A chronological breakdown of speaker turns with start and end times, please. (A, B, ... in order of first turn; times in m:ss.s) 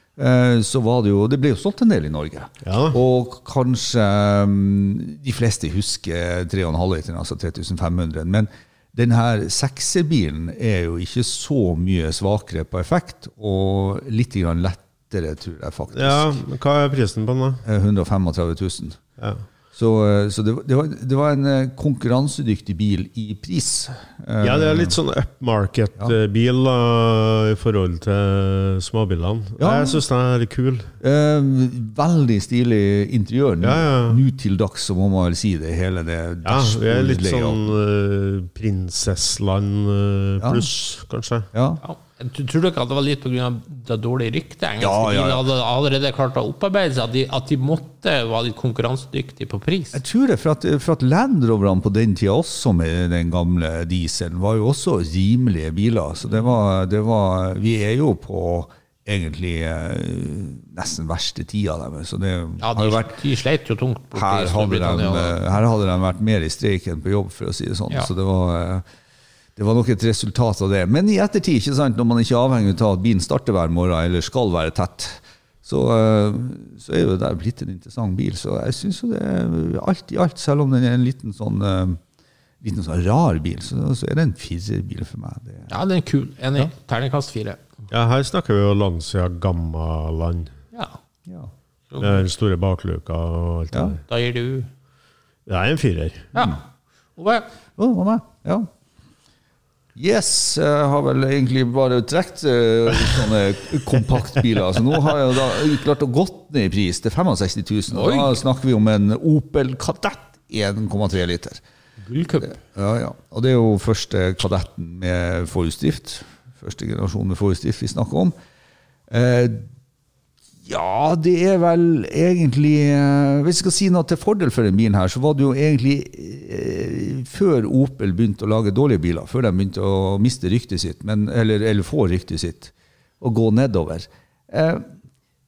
0:00.2-0:16.4 A
0:02.6-0:03.0 B
0:15.9-0:17.6 B
0:17.6-0:19.0 A
0:19.7-0:25.0 A
0:24.4-0:30.9 B
0:29.6-0:30.0 A
0:31.0-0:37.7 A
0:33.6-0:34.2 B
0:36.4-0:41.5 B
0:40.4-0:40.7 A
0:41.5-0:41.8 A
0:41.8-0:50.0 C
0:44.8-0:45.4 A
0:49.9-1:03.2 A
1:02.6-1:05.4 C
1:04.1-1:08.8 A
1:09.6-1:22.0 A
1:22.6-1:25.7 A
1:25.7-1:27.6 C
1:27.9-1:30.5 B
1:32.0-1:34.0 B
1:34.1-1:34.7 C
1:35.4-1:36.3 B
1:36.3-1:36.6 C
1:37.2-1:37.5 C
1:37.8-1:38.7 A
1:40.0-1:51.6 A
1:47.9-1:48.4 C
1:52.0-1:52.6 C
1:52.4-1:58.3 A
1:59.1-1:59.7 A
2:00.6-2:14.9 A